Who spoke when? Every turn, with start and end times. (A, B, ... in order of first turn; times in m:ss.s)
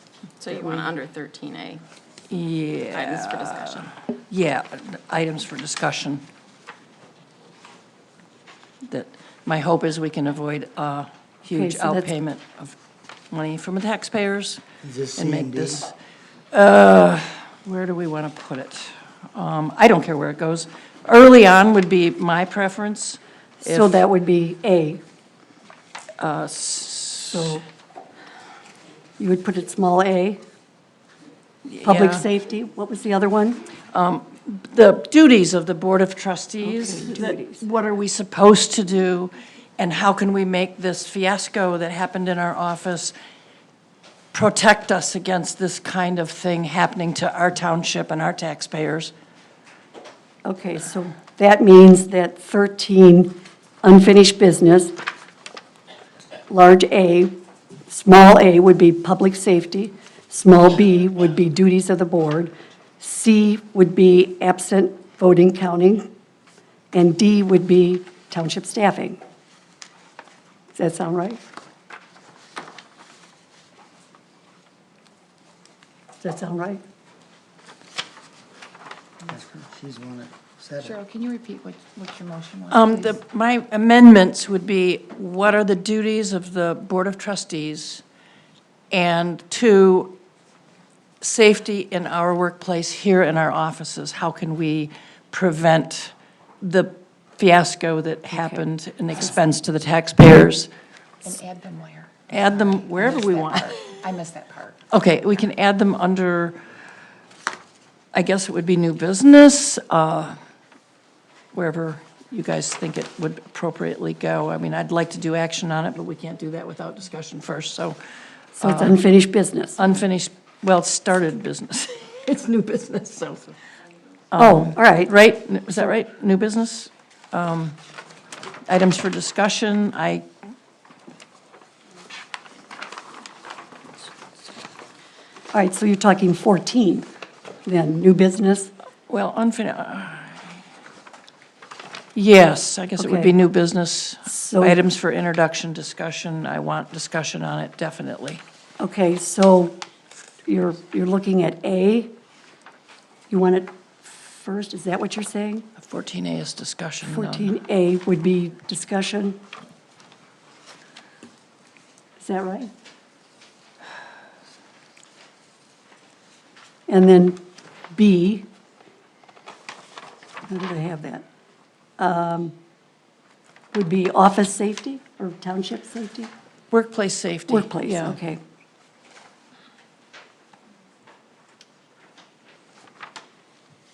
0:00.4-0:01.8 A
0:02.3-0:06.2 B
0:02.9-0:03.9 A
0:08.8-0:12.8 B
0:11.5-0:12.1 C
0:13.3-0:14.6 B
0:14.8-0:15.8 D
0:15.2-0:15.9 B
0:16.5-0:24.0 B
0:23.6-0:25.0 C
0:26.2-0:27.6 B
0:27.3-0:27.6 C
0:29.2-0:30.4 C
0:31.7-0:32.3 B
0:31.8-0:33.6 C
0:33.9-0:43.1 B
0:36.6-0:37.6 C
0:44.3-0:49.1 B
0:50.4-0:55.0 C
0:56.5-0:57.4 C
0:57.9-1:06.1 C
1:06.9-1:09.2 C
1:10.7-1:11.4 C
1:16.2-1:16.8 C
1:19.3-1:21.0 D
1:20.8-1:23.2 E
1:22.7-1:28.0 B
1:28.9-1:30.2 B
1:31.2-1:40.7 B
1:38.4-1:38.6 C
1:41.2-1:44.8 E
1:42.3-1:44.0 B
1:44.9-1:46.6 B
1:48.1-1:50.4 B
1:51.5-1:58.0 B
1:58.6-1:59.8 C
1:58.6-1:59.0 B
1:59.8-2:03.6 B
2:04.3-2:07.8 B
2:04.4-2:05.1 C
2:08.7-2:10.3 B
2:15.5-2:17.1 C
2:17.7-2:18.7 C
2:19.1-2:20.6 B
2:22.2-2:28.4 B
2:23.0-2:23.4 C
2:24.3-2:24.8 C
2:28.8-2:29.8 C
2:30.5-2:32.1 C
2:33.3-2:35.7 C
2:35.8-2:37.6 B
2:37.1-2:39.4 C
2:42.2-2:42.7 C
2:46.9-2:47.4 C
2:47.9-2:48.5 C
2:50.5-2:51.2 C
2:52.0-2:52.6 C
2:53.7-2:56.3 C
2:56.7-2:58.2 B
2:57.5-2:58.4 C